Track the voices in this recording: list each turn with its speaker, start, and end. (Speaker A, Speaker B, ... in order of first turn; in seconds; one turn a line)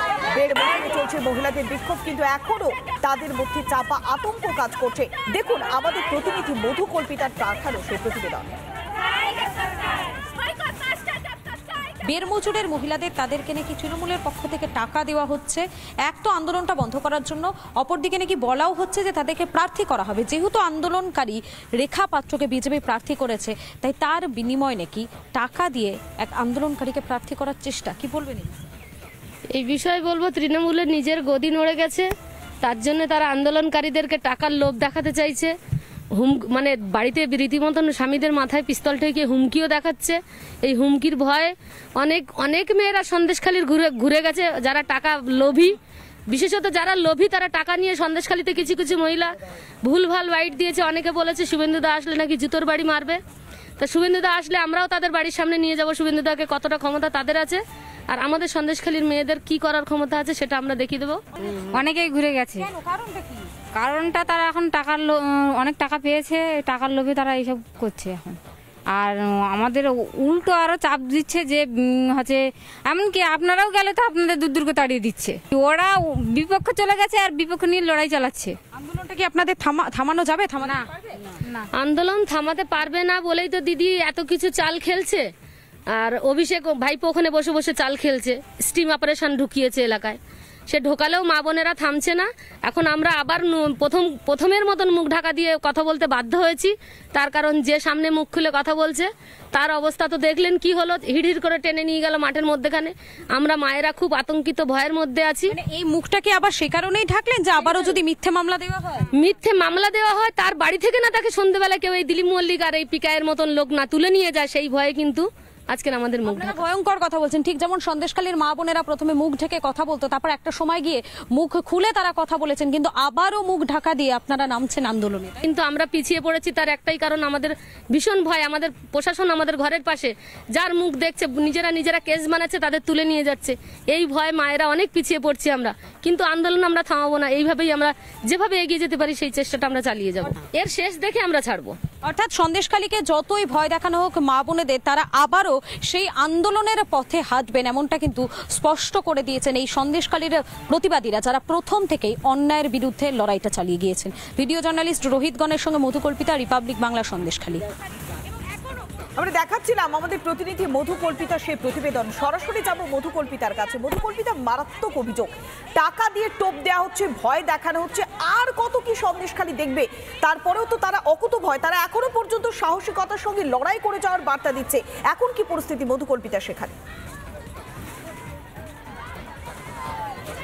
Speaker A: 0.3-8.5
Speaker B: 12.1-28.6
Speaker C: 29.5-32.1
Speaker C: 32.6-35.5
Speaker C: 36.1-45.8
Speaker C: 46.3-53.2
Speaker C: 53.8-61.2
Speaker D: 61.5-68.4
Speaker D: 68.9-78.6
Speaker B: 78.7-80.9
Speaker C: 81.6-85.3
Speaker C: 85.9-105.6
Speaker B: 105.5-109.0
Speaker C: 109.1-116.6
Speaker B: 116.2-125.4
Speaker C: 125.4-141.7
Speaker B: 142.0-157.6
Speaker A: 159.2-176.8